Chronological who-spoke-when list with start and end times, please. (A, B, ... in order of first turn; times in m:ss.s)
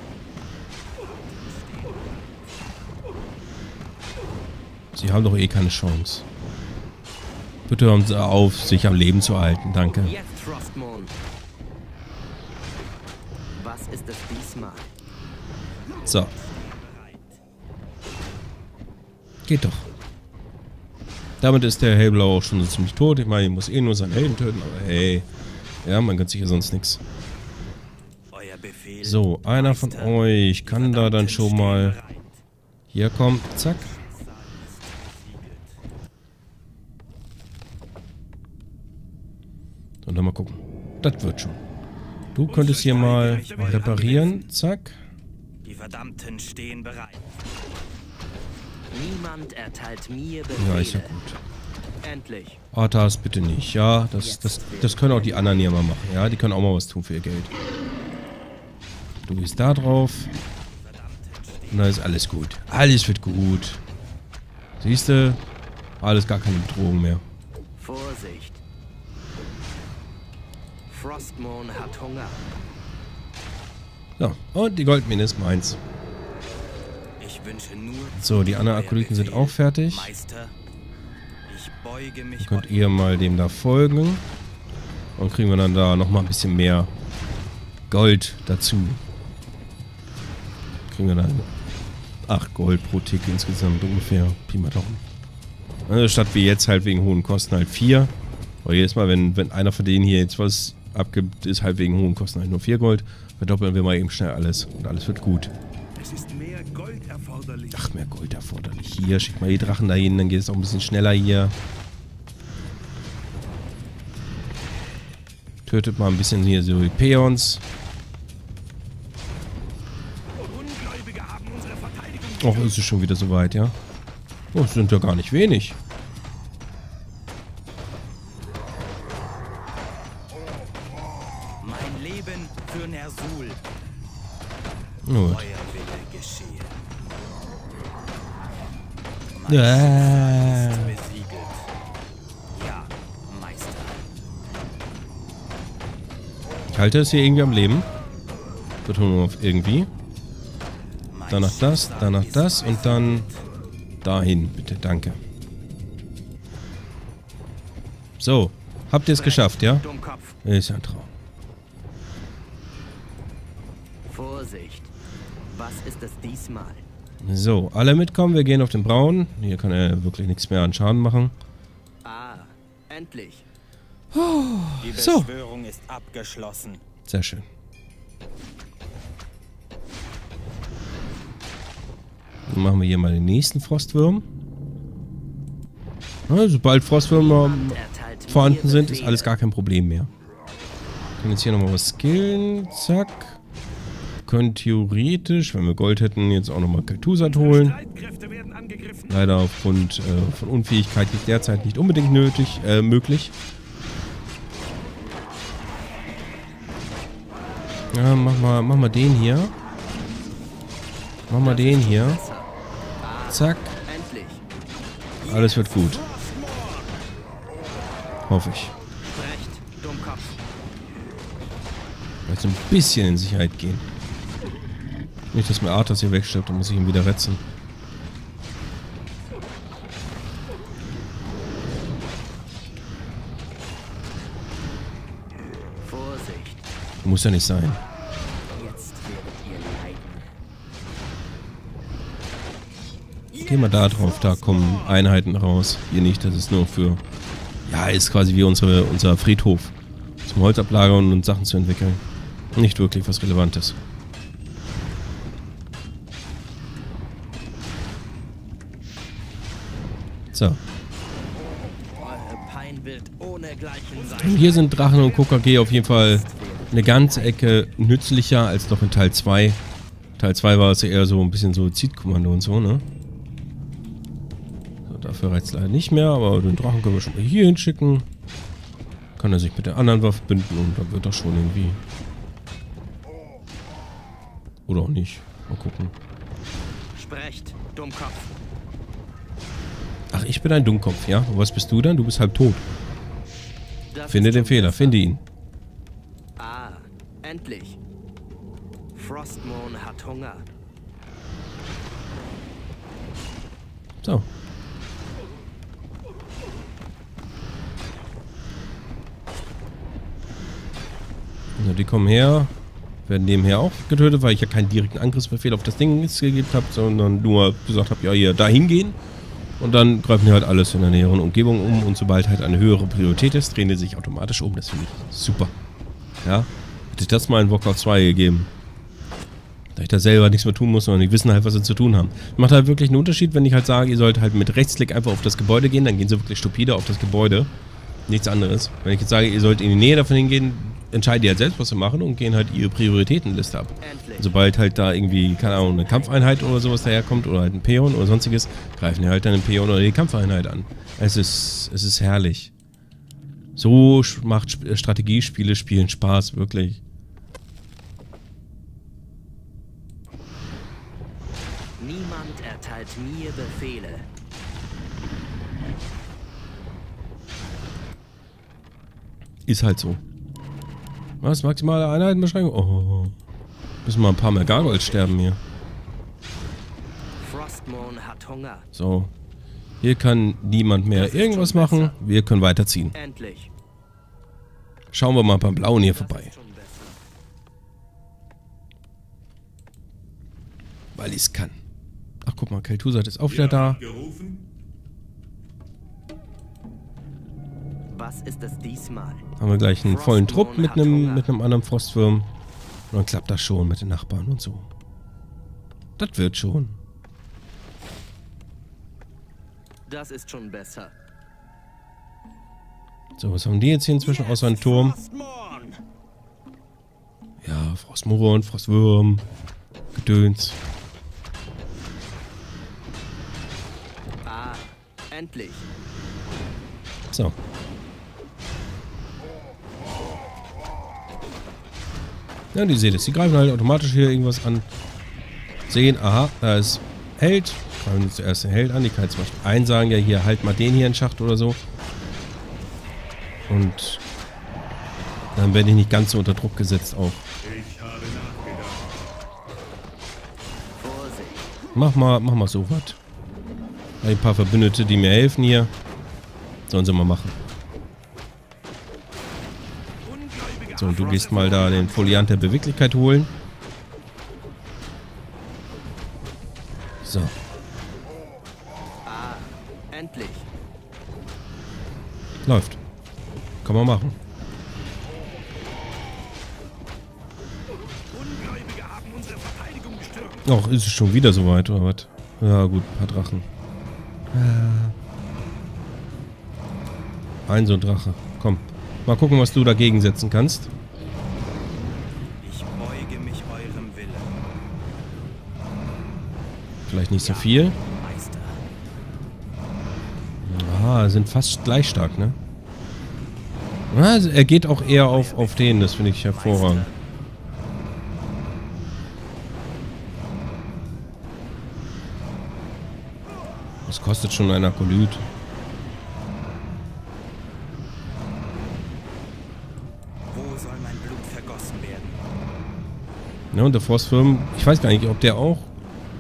0:01.0-0:02.2 A
0:04.9-0:06.3 B
0:07.7-0:10.2 B
0:10.0-0:11.1 C
0:13.6-0:14.9 C
0:16.1-0:16.3 B
0:16.1-0:17.4 A
0:19.5-0:19.9 B
0:21.4-0:25.3 B
0:25.8-0:27.0 B
0:28.3-0:32.4 A
0:29.0-0:32.0 B
0:32.9-0:34.0 B
0:33.8-0:35.8 A
0:40.0-0:41.6 B
0:42.4-0:45.0 B
0:42.5-0:44.1 D
0:42.7-0:44.5 A
0:45.6-0:47.4 A
0:48.9-0:51.2 C
0:50.6-0:51.4 B
0:52.0-0:52.6 C
0:52.7-0:57.5 B
0:54.2-0:55.7 C
0:59.3-1:00.3 B
1:00.9-1:02.0 A
1:01.7-1:03.8 B
1:04.8-1:05.4 B
1:06.0-1:07.2 B
1:07.8-1:08.6 C
1:10.9-1:12.4 C
1:14.2-1:15.8 B
1:17.2-1:20.6 A
1:18.2-1:20.1 B
1:21.5-1:23.0 A
1:22.4-1:24.2 B
1:25.2-1:26.9 B
1:27.9-1:29.0 B
1:30.9-1:31.5 B
1:32.3-1:35.0 B
1:35.9-1:38.1 B
1:38.6-1:45.5 B
1:46.0-1:47.8 D
1:47.7-1:51.6 B
1:55.7-1:57.6 B
2:00.4-2:02.7 D
2:02.4-2:03.8 B
2:04.5-2:05.8 B
2:11.6-2:13.6 A
2:15.0-2:15.5 B
2:15.2-2:16.8 A
2:19.3-2:21.7 A
2:19.5-2:21.0 B
2:22.5-2:24.1 A
2:26.7-2:27.9 B
2:28.8-2:29.9 B
2:31.1-2:33.4 A
2:31.3-2:33.3 B
2:34.0-2:35.2 B
2:38.2-2:39.9 B
2:39.1-2:40.4 C
2:40.4-2:41.1 B
2:44.0-2:44.9 C
2:45.5-2:46.8 C
2:47.2-2:51.4 B
2:52.0-2:53.5 C
2:54.1-2:55.3 B
2:54.8-2:56.8 A
2:57.1-2:57.5 B
3:02.5-3:04.3 B
3:06.3-3:10.1 B
3:07.1-3:09.3 C
3:11.2-3:13.4 B
3:14.3-3:17.8 B
3:17.3-3:19.1 D
3:19.1-3:23.3 B
3:27.9-3:29.5 B
3:31.3-3:32.2 B
3:31.4-3:32.5 C
3:33.0-3:34.4 C
3:33.3-3:33.7 B
3:35.2-3:36.1 B
3:35.3-3:35.6 C
3:35.7-3:36.9 A
3:38.3-3:38.8 B
3:39.0-3:40.4 C
3:42.3-3:43.9 B
3:45.3-3:47.4 B
3:55.8-3:56.6 C
3:57.0-3:57.8 B
3:58.5-4:00.2 C
4:03.3-4:05.0 C
4:03.4-4:07.0 B
4:07.7-4:12.0 B
4:12.5-4:13.8 B
4:20.3-4:20.6 B
4:22.0-4:27.4 C
4:24.2-4:29.6 B
4:30.2-4:32.8 B
4:34.9-4:38.1 B
4:39.2-4:41.8 B
4:44.7-4:45.9 B
4:46.9-4:48.4 C
4:50.1-4:52.7 B
4:53.9-4:55.1 C
4:54.1-4:55.2 B
4:56.4-4:57.8 C
4:58.9-5:00.5 C
5:11.6-5:12.5 B
5:13.1-5:19.0 B
5:19.6-5:25.5 B
5:26.2-5:28.5 B
5:29.8-5:37.5 B
5:38.1-5:52.5 B
5:43.8-5:44.4 C
5:45.6-5:46.8 C
5:53.6-5:56.8 B
6:01.8-6:04.1 C
6:09.5-6:10.0 B
6:11.2-6:13.2 B
6:13.8-6:15.4 B
6:14.4-6:15.2 C
6:17.2-6:18.7 C
6:18.7-6:19.1 B
6:19.8-6:23.0 B
6:20.9-6:22.0 C
6:22.9-6:23.5 C
6:24.9-6:26.3 B
6:25.7-6:27.0 C
6:31.0-6:31.6 B
6:32.2-6:33.8 B
6:33.3-6:34.4 D
6:37.9-6:39.3 C
6:39.4-6:42.3 B
6:39.8-6:41.3 C
6:42.9-6:44.7 B
6:46.0-6:46.8 B
6:49.9-6:50.9 C
6:53.2-6:55.0 B
6:54.5-6:55.3 A
6:55.2-6:55.8 C
6:57.4-6:59.3 B
7:00.0-7:00.6 B
7:04.2-7:05.7 C
7:12.5-7:14.7 B
7:15.7-7:21.6 B
7:23.5-7:24.0 B
7:25.4-7:27.2 B
7:27.4-7:28.8 D
7:30.8-7:31.5 C
7:31.8-7:33.0 B
7:34.0-7:35.7 B
7:36.7-7:37.4 B
7:40.0-7:40.9 D
7:40.7-7:43.3 B
7:40.8-7:42.3 C
7:47.0-7:47.3 B
7:49.0-7:50.5 C
7:52.4-7:52.8 B
7:53.6-7:54.2 B
7:58.1-8:00.4 D
8:00.4-8:03.5 B
8:04.3-8:05.0 B
8:07.5-8:10.7 B
8:12.4-8:14.4 A
8:16.9-8:17.8 B
8:17.2-8:18.6 A
8:20.4-8:22.4 B
8:23.9-8:26.9 B
8:24.8-8:27.0 A
8:33.9-8:35.3 B
8:40.3-8:42.2 A
8:43.5-8:45.7 B